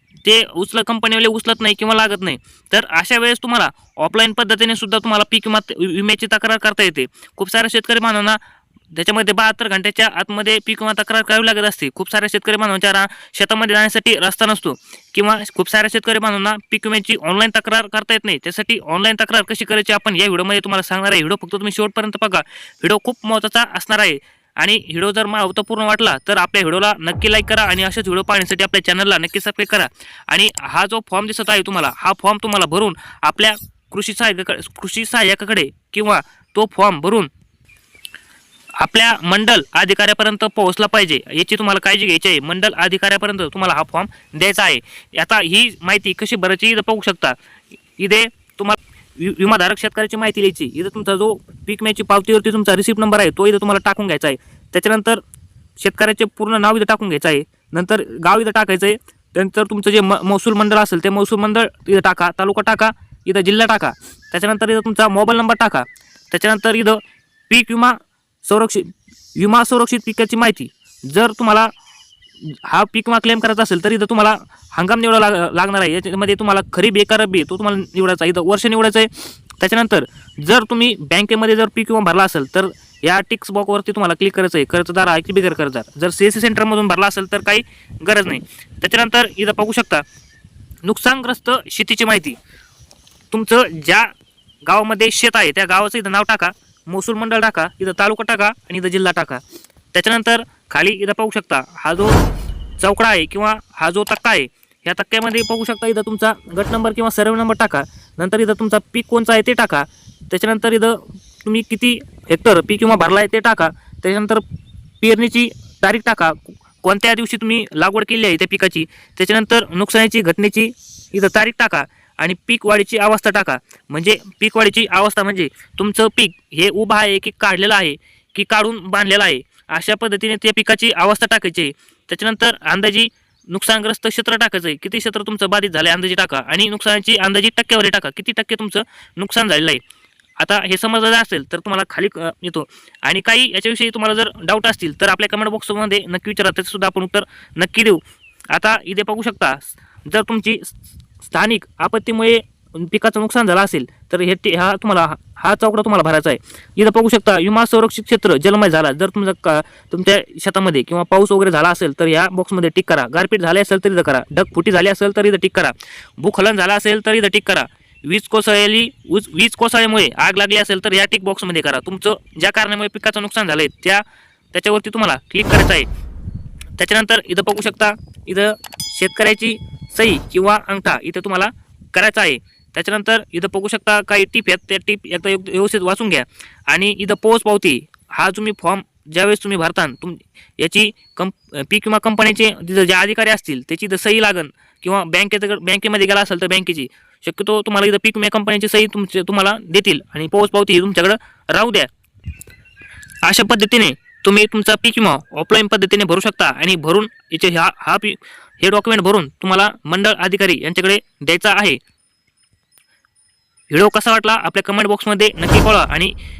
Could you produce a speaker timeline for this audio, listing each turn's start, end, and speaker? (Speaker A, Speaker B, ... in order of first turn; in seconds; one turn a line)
Speaker A: 0.2-8.4
Speaker A: 8.9-37.3
Speaker A: 38.8-47.4
Speaker A: 48.0-55.2
Speaker A: 55.8-71.7
Speaker A: 72.4-90.0
Speaker A: 90.8-92.4
Speaker A: 93.3-94.1
Speaker A: 94.7-99.4
Speaker A: 99.9-102.2
Speaker A: 102.8-114.4
Speaker A: 115.0-139.8
Speaker A: 140.4-148.0
Speaker A: 148.5-175.9
Speaker A: 176.8-201.9
Speaker A: 203.2-211.8
Speaker A: 213.7-216.1